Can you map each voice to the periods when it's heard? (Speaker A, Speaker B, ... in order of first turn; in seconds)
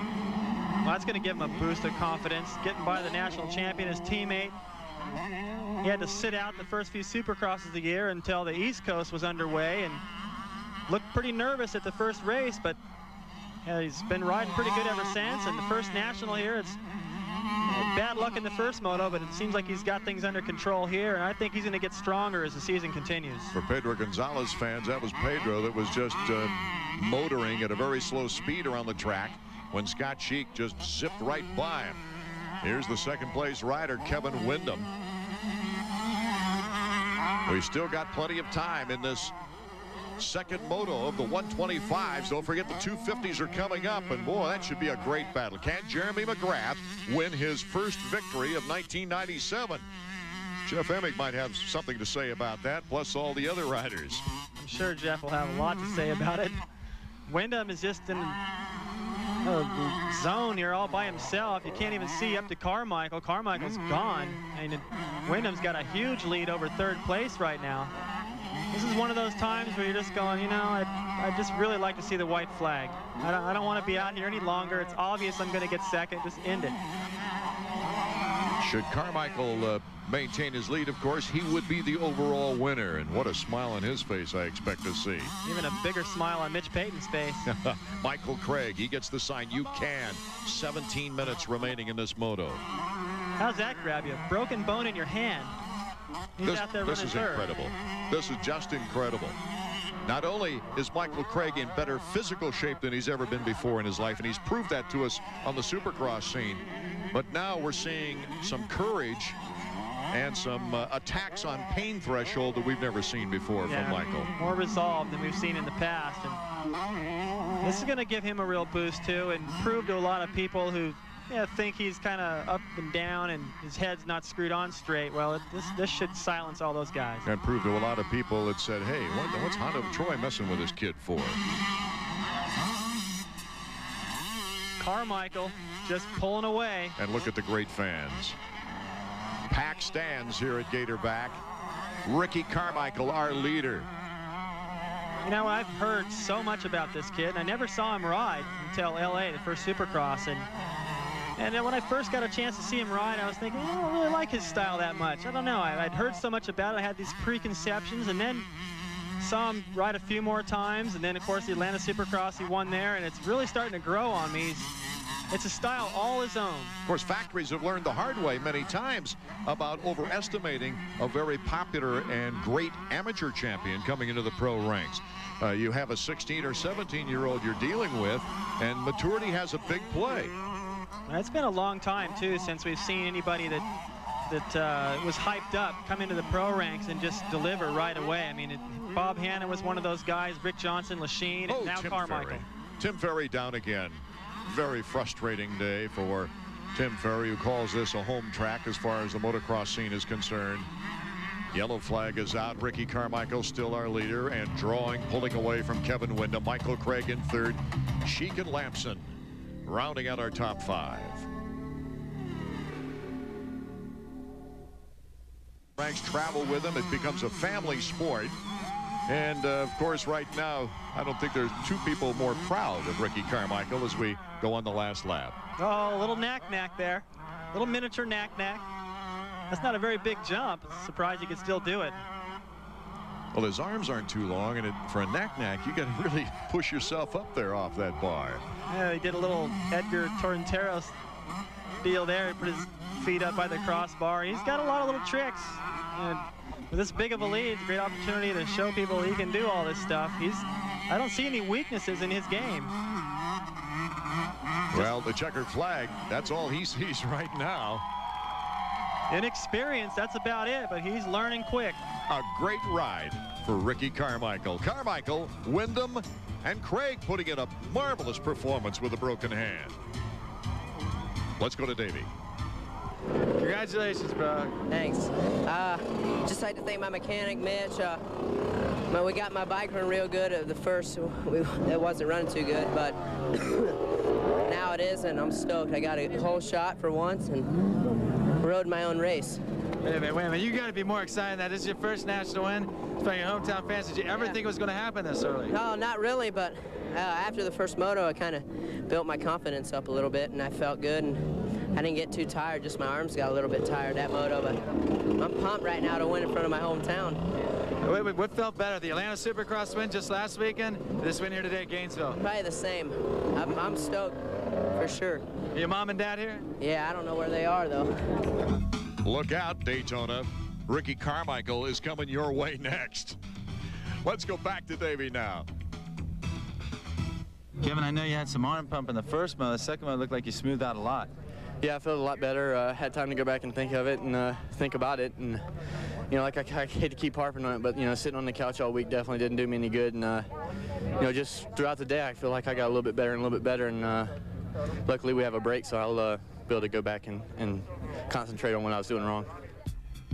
Speaker A: 0.8-4.5, 5.8-10.0, 10.9-12.8, 13.6-16.8, 17.7-23.5, 54.6-56.6, 57.3-58.4, 59.4-67.9, 68.7-76.8, 85.5-87.5, 93.4-95.5, 96.4-97.5, 113.7-116.4, 117.6-127.3, 134.8-136.9, 145.2-150.5, 151.4-158.5, 159.2-164.7, 165.3-166.8, 181.1-183.7, 184.3-192.4, 225.6-228.6, 229.5-232.0, 238.7-240.9, 241.8-252.7, 259.1-261.8
Speaker B: 23.5-32.0, 32.6-34.9, 37.5-39.3, 40.2-49.9, 50.6-54.3, 78.6-85.3, 87.5-92.6, 96.4-99.4, 100.0-109.4, 110.1-114.3, 127.2-131.4, 137.0-138.4, 139.5-141.4, 142.1-143.9, 166.9-180.4, 191.5-200.7, 201.5-209.1, 209.6-211.3, 215.8-218.4, 219.1-225.4, 233.3-238.4, 254.7-257.8, 262.1-269.8, 271.4-272.1, 319.0-323.2, 324.0-325.5
Speaker C: 273.4-274.6, 289.8-295.6, 307.8-312.2, 315.5-316.4, 327.6-331.1
Speaker D: 274.7-278.0, 278.9-283.7, 284.4-287.5, 288.4-289.4, 294.1-294.4, 295.5-304.6, 305.1-307.2, 312.2-314.2, 314.7-315.2, 316.6-317.9
Speaker E: 331.6-335.4, 336.1-340.3, 341.0-344.2, 344.9-349.3